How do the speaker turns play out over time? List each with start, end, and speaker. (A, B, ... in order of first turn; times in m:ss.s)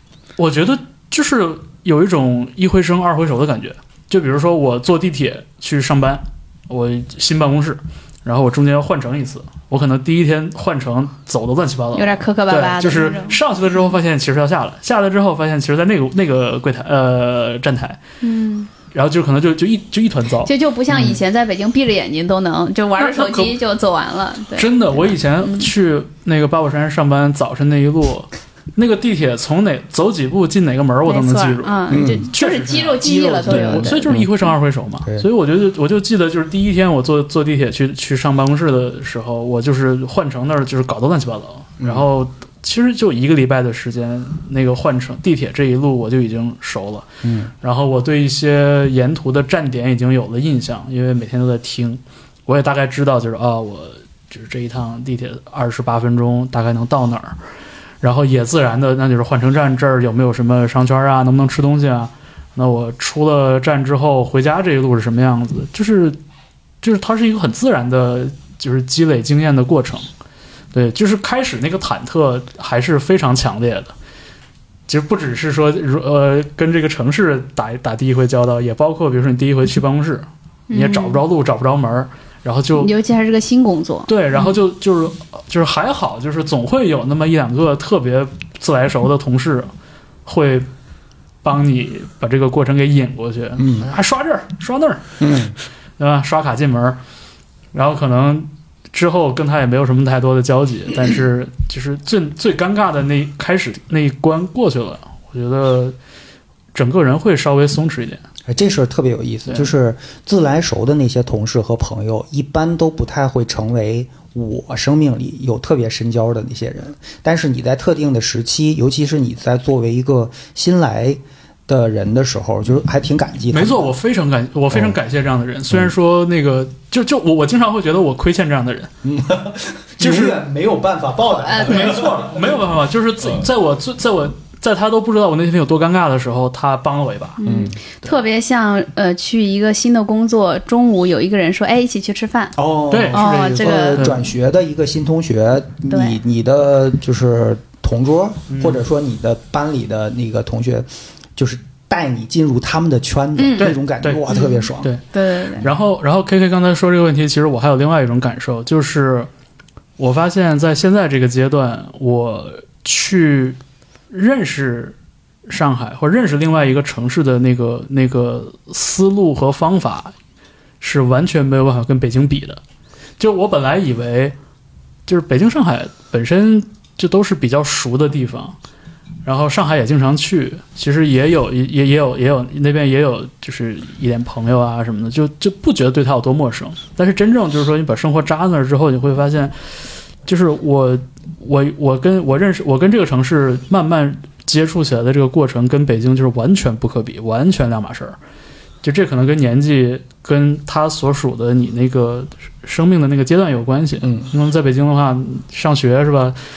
0:00.4-0:18.0 A
0:11.9-0:13.9 B
0:18.2-0:18.7 B
0:18.9-0:21.1 A
0:20.4-0:25.7 B
0:23.0-0:23.6 A
0:24.6-0:47.1 A
0:31.1-0:34.5 B
0:31.9-0:32.3 C
0:33.5-0:34.3 C
0:41.8-0:42.1 C
0:47.2-0:47.5 C
0:47.6-0:57.4 A
0:58.0-1:06.2 A
1:06.8-1:10.1 A
1:10.7-1:13.9 A
1:14.9-1:22.9 A
1:20.7-1:21.2 B
1:22.8-1:24.6 B
1:24.1-1:29.7 A
1:30.2-1:30.7 A
1:31.4-1:35.1 A
1:33.6-1:33.9 C
1:35.2-1:35.6 C
1:36.0-1:37.0 A
1:37.7-1:46.0 A
1:46.7-1:48.2 A
1:48.5-2:03.9 C
1:49.5-1:49.7 A
2:03.5-2:08.9 A
2:04.7-2:05.0 C
2:09.0-2:12.6 C
2:10.0-2:10.4 A
2:11.4-2:12.1 B
2:11.6-2:17.4 A
2:17.4-2:22.6 B
2:17.4-2:17.8 C
2:22.6-2:34.9 C
2:22.9-2:24.2 A
2:23.1-2:24.2 B
2:25.9-2:26.2 B
2:28.5-2:28.8 A
2:33.4-2:33.8 B
2:33.6-2:34.2 A
2:34.3-2:35.7 B
2:35.6-2:39.3 A
2:40.0-2:43.6 A
2:44.1-2:45.0 A
2:45.5-2:50.1 A
2:50.8-2:52.6 A
2:53.2-2:54.4 A
2:55.1-2:58.6 A
2:59.2-3:09.7 A
3:10.2-3:18.2 A
3:18.8-3:26.4 A
3:24.0-3:24.3 C